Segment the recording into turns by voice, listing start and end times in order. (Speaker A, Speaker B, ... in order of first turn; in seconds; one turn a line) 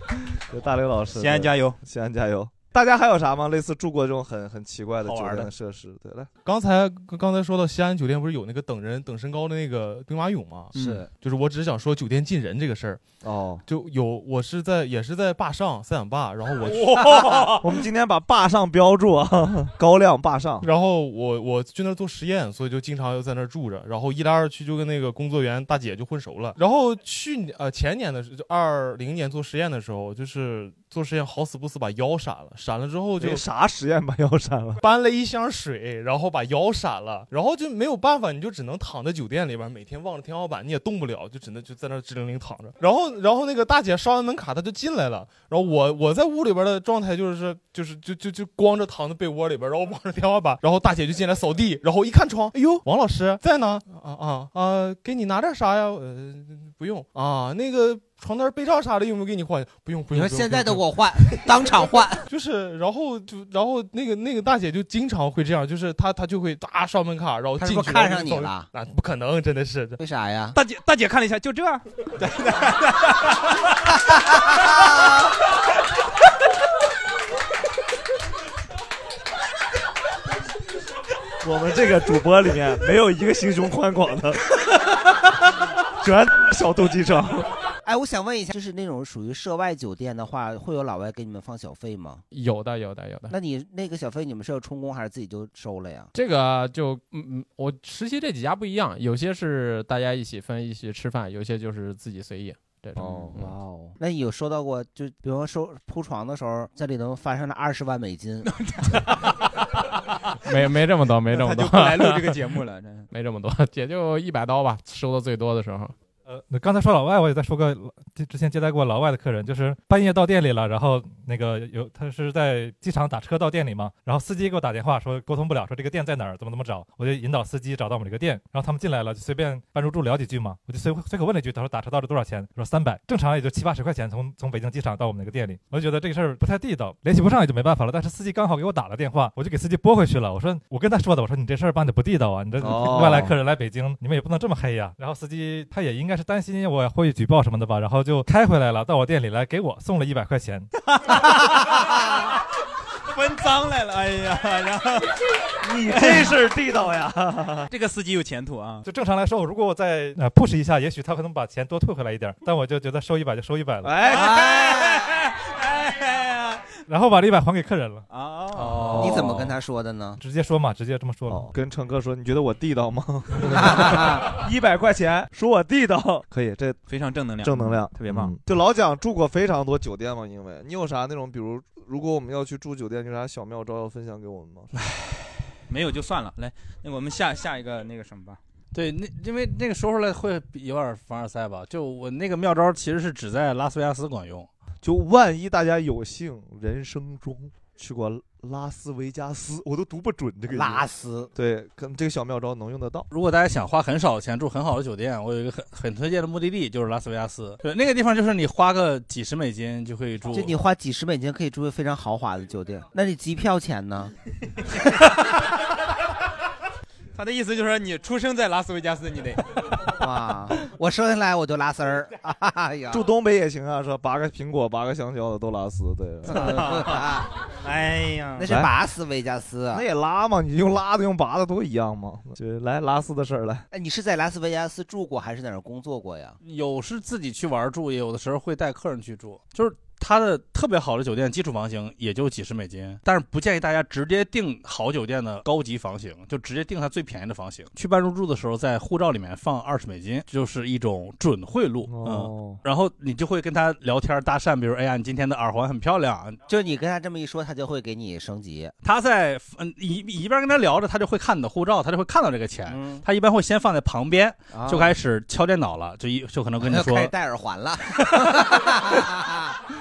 Speaker A: 0.4-6.3
Speaker B: 1.1-1.8
Speaker C: 5.0-5.5
Speaker D: 6.4-13.0
Speaker E: 10.7-11.1
Speaker A: 13.2-13.6
Speaker D: 13.7-17.5
Speaker A: 17.6-20.7
Speaker D: 20.6-33.4
Speaker A: 33.2-34.8
Speaker D: 34.8-61.5
Speaker E: 60.1-62.2
Speaker D: 62.3-70.0
Speaker E: 67.6-68.7
Speaker E: 70.0-70.5
Speaker B: 70.5-73.3
Speaker E: 74.5-74.8
Speaker A: 81.4-84.5
Speaker A: 86.0-87.5
Speaker E: 87.8-92.2
Speaker F: 92.3-93.3
Speaker E: 93.3-96.1
Speaker F: 96.1-103.5
Speaker A: 103.0-103.4
Speaker E: 103.3-108.5
Speaker F: 110.4-112.4
Speaker B: 111.3-113.1
Speaker F: 113.1-115.9
Speaker G: 116.2-150.7
Speaker A: 142.6-143.3
Speaker B: 153.1-155.2
Speaker A: 155.6-157.7
Speaker B: 155.9-156.3
Speaker B: 157.7-158.8
Speaker G: 158.8-164.0
Speaker A: 163.8-164.5
Speaker E: 164.1-165.1
Speaker B: 164.1-166.7
Speaker G: 166.9-168.0
Speaker B: 168.1-169.2
Speaker C: 168.6-169.5
Speaker A: 168.8-169.3
Speaker E: 169.0-170.2
Speaker G: 170.2-171.5
Speaker A: 171.3-176.8
Speaker E: 173.6-174.2
Speaker B: 176.9-178.3
Speaker A: 177.4-184.7
Speaker B: 185.7-188.4
Speaker C: 188.7-194.5
Speaker A: 194.8-203.1
Speaker E: 200.5-201.3
Speaker C: 203.1-210.6
Speaker E: 210.3-214.1
Speaker B: 217.1-219.7
Speaker E: 220.0-223.0
Speaker A: 222.9-226.8
Speaker E: 226.3-227.3
Speaker B: 226.3-227.1
Speaker B: 227.6-228.5
Speaker E: 228.4-229.8
Speaker A: 228.4-228.7
Speaker A: 229.7-233.7
Speaker E: 233.7-236.4
Speaker C: 236.4-256.4
Speaker A: 251.9-252.6
Speaker E: 256.5-258.7
Speaker C: 258.8-267.1
Speaker E: 262.7-263.0
Speaker E: 264.5-264.9
Speaker E: 266.6-269.5